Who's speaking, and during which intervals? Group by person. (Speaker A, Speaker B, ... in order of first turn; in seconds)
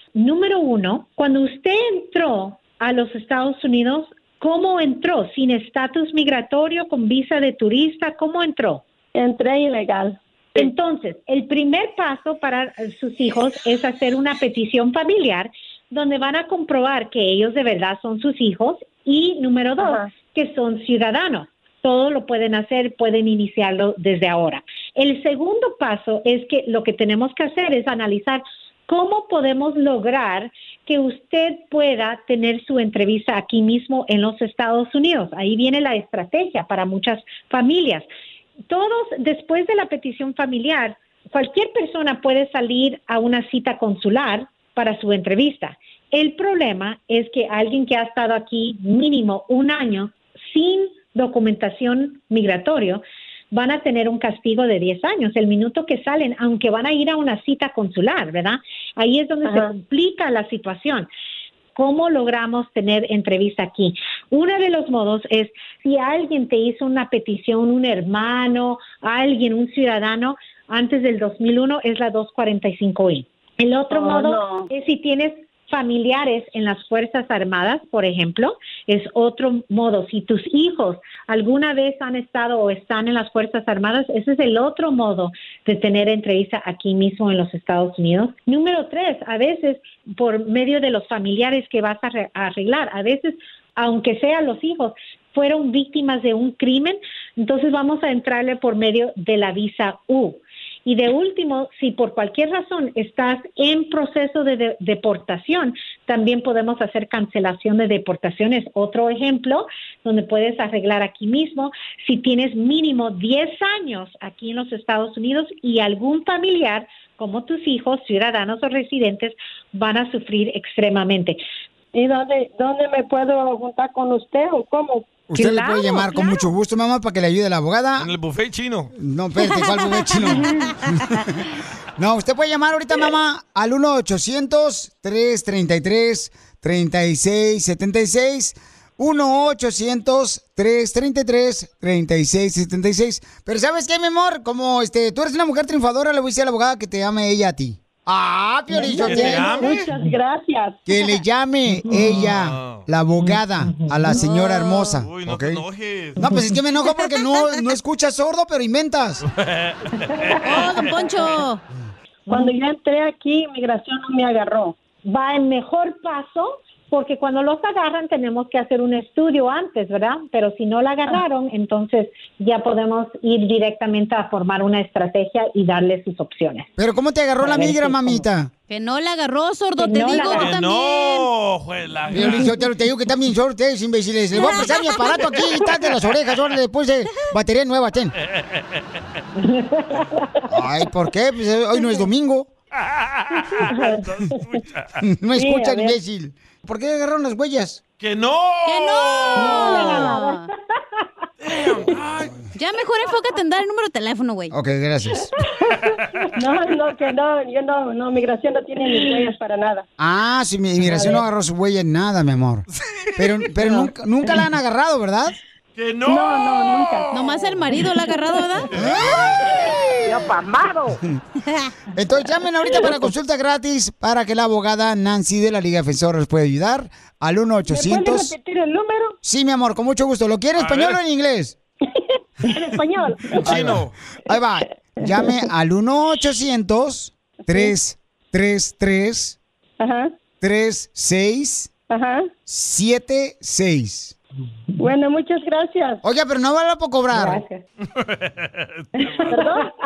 Speaker A: 0.2-8.8, 10.6-38.1, 38.7-61.1, 61.8-121.4, 125.4-126.2, 151.9-152.2, 153.3-153.9, 165.1-176.7, 177.4-178.2, 179.8-180.5, 189.4-190.0, 199.4-200.2, 247.1-247.6
Speaker B: 9.2-10.7, 19.8-20.1, 121.9-125.2, 148.7-150.8, 162.3-164.8, 177.5-177.8, 195.4-196.0, 206.4-209.9, 210.8-211.2, 216.1-217.2, 218.2-218.6, 227.7-229.2, 232.5-233.4, 235.1-235.4, 237.5-237.8, 239.8-240.1, 241.9-242.3, 244.8-246.0, 249.2-249.7
Speaker C: 125.3-128.1, 129.0-149.7, 150.9-155.6, 156.2-159.2, 176.8-178.5, 182.1-188.1, 190.5-192.5, 195.0-197.8, 204.5-205.3, 210.0-212.7, 213.2-215.4, 218.7-220.2, 221.9-228.3, 229.2-231.6, 233.4-239.4, 240.4-241.7, 242.5-244.2, 246.0-247.4
Speaker D: 128.0-128.9, 149.1-149.9, 152.1-152.8, 154.2-156.2, 159.3-160.9, 180.1-182.6, 188.3-189.0, 192.8-195.0, 198.0-200.2, 201.4-202.4, 205.8-206.2, 212.8-213.5, 215.8-217.6, 218.7-219.6, 230.5-231.0, 233.4-233.9, 247.8-249.3
Speaker E: 129.4-130.6, 160.4-161.6, 178.7-181.3, 184.4-185.1, 198.7-200.5, 202.6-204.6, 217.1-218.7